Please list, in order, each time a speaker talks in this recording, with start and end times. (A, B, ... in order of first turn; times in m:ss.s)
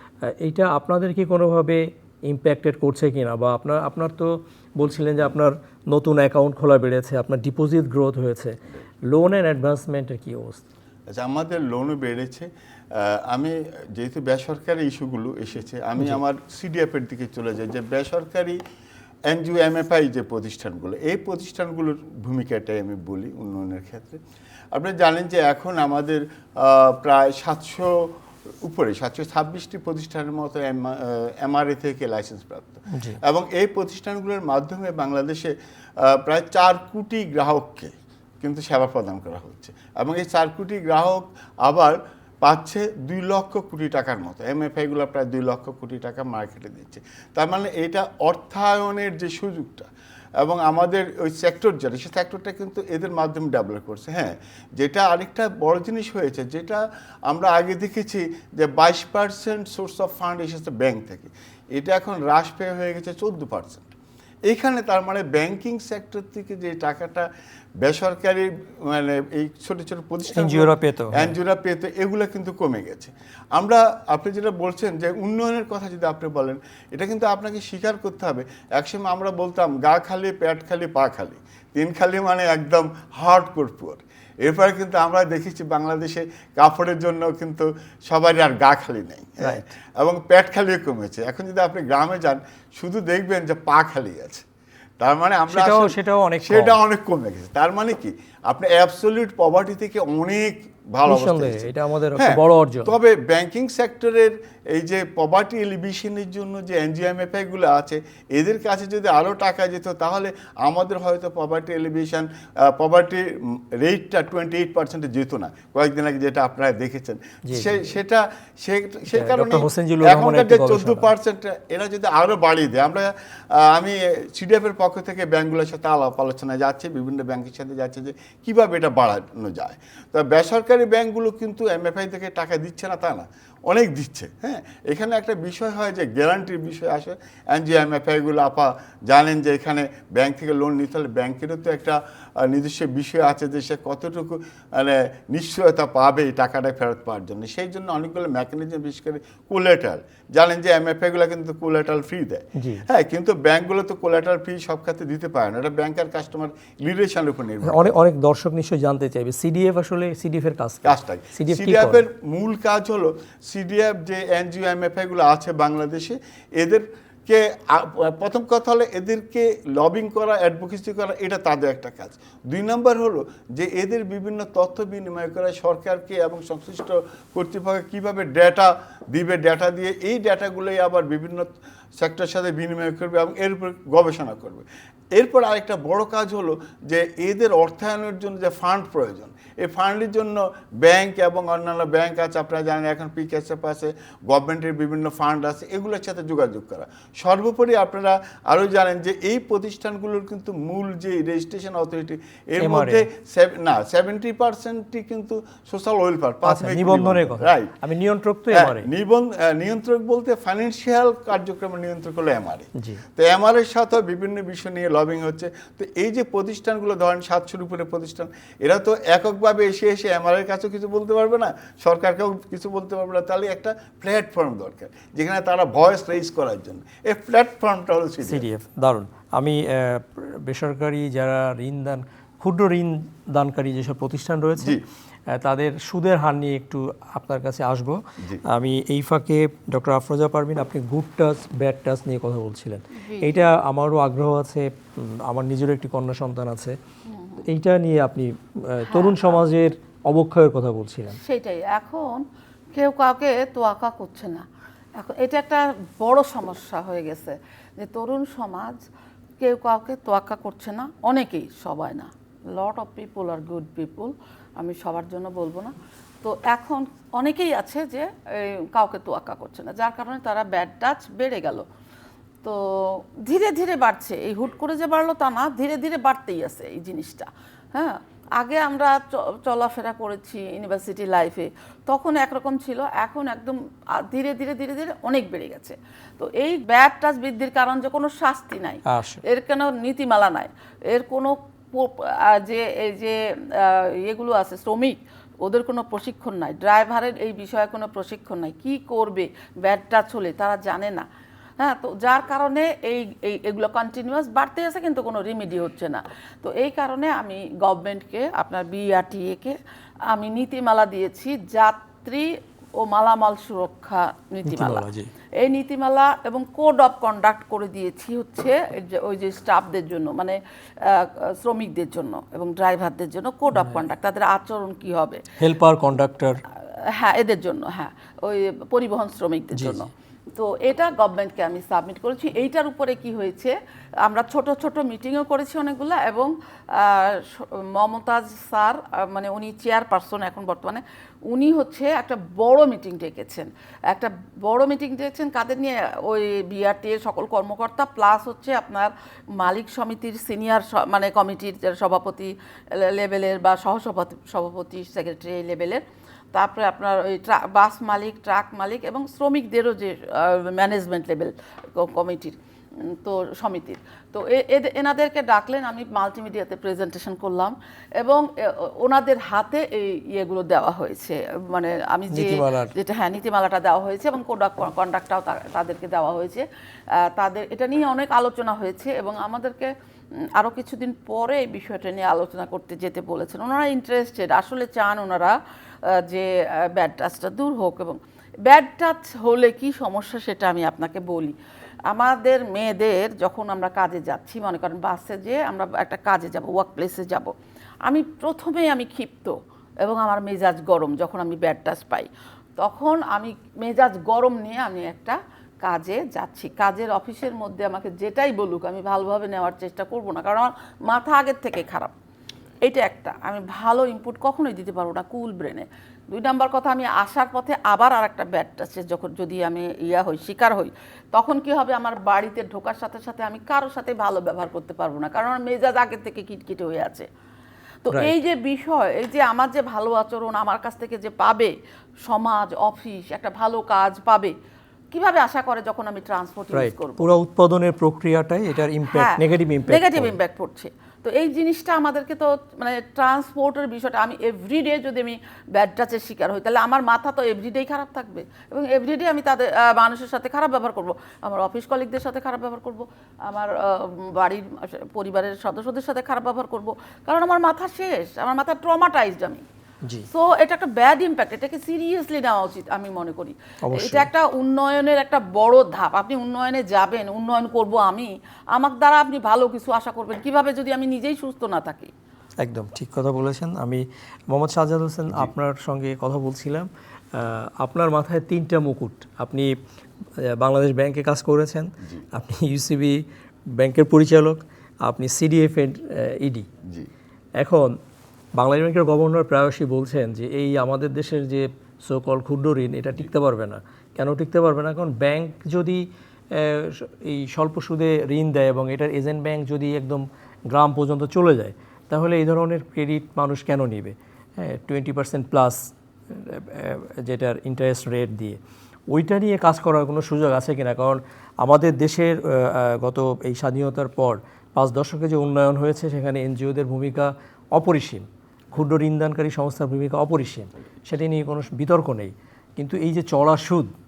0:00.2-0:10.6 A
0:11.1-0:18.6 B
0:19.2-0:24.2 B
0:24.7-1:03.9 B
0:32.9-0:33.2 A
1:04.4-1:07.3 B
1:07.8-1:34.4 B
1:10.3-1:11.3 A
1:35.0-2:37.9 B
1:35.5-1:36.8 A
1:41.0-1:43.0 A
1:57.5-1:57.8 A
1:59.1-2:01.1 A
2:32.6-2:32.8 A
2:37.6-2:42.0 A
2:40.8-3:27.8 B
3:22.6-3:23.0 A
3:26.4-3:28.9 A
3:28.5-3:48.5 B
3:32.8-3:33.0 A
3:48.2-4:06.8 A
4:02.9-4:03.5 C
4:07.1-4:07.4 C
4:07.4-4:11.2 A
4:08.9-4:09.4 C
4:11.2-4:14.4 C
4:15.0-4:18.8 C
4:19.4-4:31.6 C
4:32.4-5:01.1 C
4:48.9-4:49.2 A
5:01.6-5:09.6 C
5:10.1-5:14.8 C
5:14.4-5:15.1 A
5:15.4-5:25.2 C
5:23.5-5:23.8 A
5:25.4-5:26.4 A
5:26.9-6:16.4 C
5:29.5-5:29.9 A
6:12.1-6:12.7 A
6:17.0-6:19.7 C
6:20.4-6:25.4 C
6:25.9-6:31.4 C
6:31.9-6:37.3 C
6:37.8-6:51.9 C
6:52.6-7:07.1 C
7:07.8-7:11.5 C
7:12.0-7:14.3 C
7:14.9-7:17.1 C
7:16.5-7:20.2 A
7:18.9-7:39.4 C
7:40.1-7:51.9 C
7:43.6-7:44.1 A
7:52.4-7:59.5 A
8:00.2-8:06.5 A
8:07.4-8:07.8 A
8:08.4-8:28.4 A
8:28.9-8:43.7 A